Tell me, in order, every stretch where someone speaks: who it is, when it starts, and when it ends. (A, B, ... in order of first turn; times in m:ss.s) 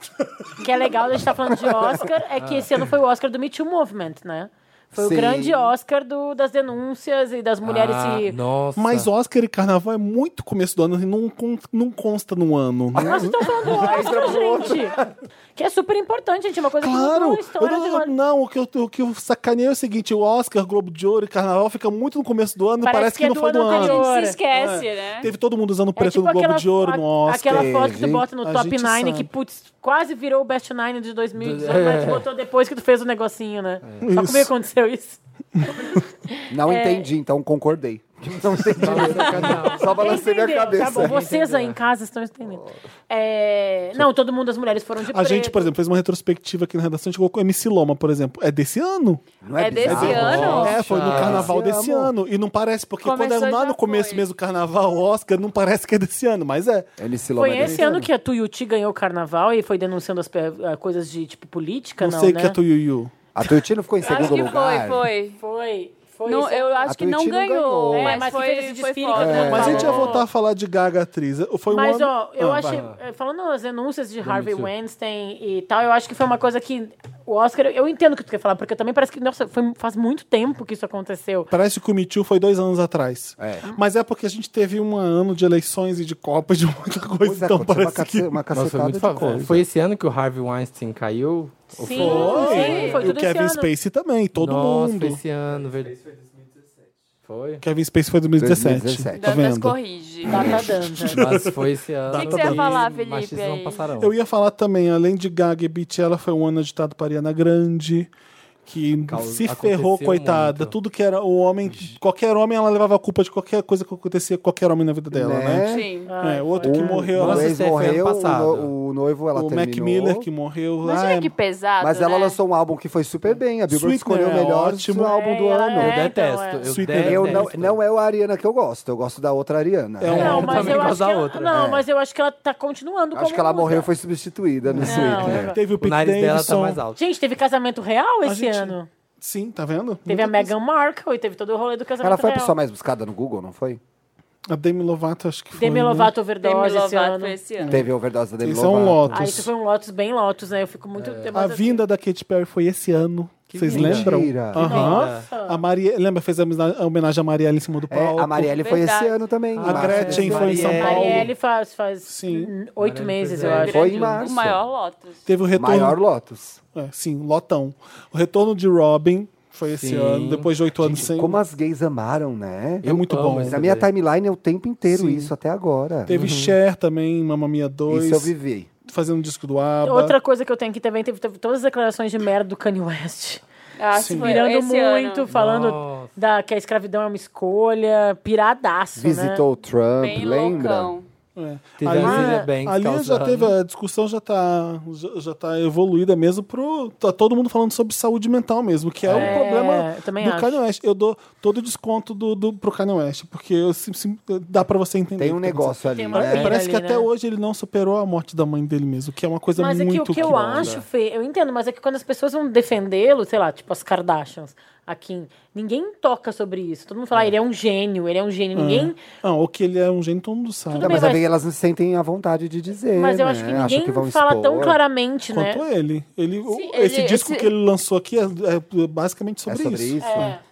0:00.2-0:00.6 A
0:00.6-0:08.4 B
0:01.5-0:02.0 C
0:02.4-0:02.7 D
0:04.9-0:05.7 C
0:07.6-0:09.1 D
0:08.8-0:13.2 A
0:12.9-0:15.1 C
0:13.0-0:15.0 B
0:15.5-0:18.1 B
0:16.8-0:27.7 A
0:22.8-0:24.4 B
0:23.6-0:25.3 E
0:26.0-0:37.1 B
0:27.5-0:28.3 C
0:28.4-0:29.3 A
0:31.4-0:32.3 D
0:34.0-0:34.5 A
0:36.5-0:41.2 C
0:38.8-0:40.0 D
0:39.7-0:45.7 B
0:40.7-0:41.8 D
0:42.4-0:42.7 C
0:45.0-0:49.2 A
0:49.4-0:52.1 C
0:49.6-0:50.8 E
0:49.8-0:56.9 A
0:49.9-0:51.5 D
0:53.0-0:54.2 E
0:57.0-0:58.1 C
0:57.4-1:02.6 B
0:57.6-0:57.9 A
1:02.0-1:03.1 A
1:03.3-1:05.1 C
1:04.0-1:05.4 E
1:05.4-1:06.9 B
1:06.2-1:10.2 E
1:06.8-1:08.3 C
1:07.9-1:10.2 B
1:09.1-1:10.1 C
1:09.3-1:12.8 A
1:11.7-1:21.5 B
1:12.6-1:12.9 D
1:14.2-1:14.7 D
1:21.5-1:28.4 A
1:23.4-1:23.6 C
1:27.2-1:29.6 C
1:28.5-1:32.8 D
1:31.8-1:33.7 B
1:31.9-1:35.2 A
1:32.0-1:33.1 E
1:34.4-1:36.0 D
1:37.2-1:37.6 D
1:37.6-1:42.8 A
1:38.4-1:39.3 C
1:39.1-1:40.6 E
1:40.3-1:41.2 B
1:41.1-1:44.1 D
1:42.1-1:43.8 E
1:44.0-1:48.1 A
1:48.6-1:55.7 A
1:49.1-1:50.7 D
1:55.1-1:55.9 C
1:55.6-1:56.1 E
1:56.1-1:57.0 B
1:56.2-1:57.6 A
1:56.6-2:00.3 C
1:57.2-1:58.7 D
1:59.3-2:01.3 A
2:00.8-2:02.4 E
2:01.8-2:06.0 C
2:03.7-2:05.2 A
2:05.0-2:06.7 B
2:05.8-2:07.8 D
2:06.6-2:07.5 A
2:07.0-2:10.6 C
2:10.0-2:10.9 A
2:10.0-2:11.7 D
2:10.1-2:13.9 B
2:11.5-2:11.8 C
2:13.1-2:15.6 C
2:14.6-2:16.8 A
2:14.8-2:15.6 B
2:15.8-2:17.0 D
2:17.0-2:18.9 B
2:18.2-2:20.5 A
2:20.1-2:22.5 B
2:22.0-2:23.8 C
2:24.5-2:26.1 A
2:25.5-2:27.4 B
2:26.4-2:27.8 E
2:27.7-2:29.5 C
2:28.4-2:29.5 A
2:29.1-2:31.8 B
2:31.0-2:31.3 D
2:31.3-2:38.6 A
2:33.5-2:35.3 D
2:33.7-2:34.9 C
2:34.6-2:35.6 B
2:37.9-2:40.9 C
2:38.5-2:39.2 E
2:39.6-2:41.3 D
2:39.6-2:41.3 A
2:40.6-2:43.9 B
2:40.7-2:41.1 E
2:42.0-2:42.5 A
2:42.8-2:44.2 D
2:43.4-2:45.2 E
2:43.6-2:44.6 C
2:45.2-2:46.0 A
2:45.6-2:46.6 C
2:46.7-2:51.4 A
2:49.7-2:51.0 D
2:50.9-2:56.2 C
2:52.8-2:53.6 A
2:52.8-2:53.9 D
2:54.9-2:55.3 A
2:56.0-3:00.2 A
2:56.1-2:56.6 D
2:57.9-2:58.7 C
2:59.8-3:03.4 B
3:03.8-3:05.3 E
3:03.9-3:04.4 A
3:04.0-3:09.4 B
3:05.3-3:06.1 D
3:09.0-3:10.9 C
3:10.0-3:11.1 E
3:11.4-3:30.7 A
3:11.8-3:13.6 D
3:12.0-3:12.5 B
3:19.0-3:19.4 D
3:19.1-3:20.6 B
3:25.2-3:26.6 C
3:25.9-3:27.1 B
3:29.6-3:39.0 B
3:30.2-3:30.8 D
3:38.5-3:41.1 A
3:40.7-3:41.2 B
3:40.8-3:44.8 C
3:42.9-3:45.6 B
3:45.3-3:50.4 A
3:46.5-3:47.5 E
3:49.5-3:50.3 C
3:50.0-3:50.4 B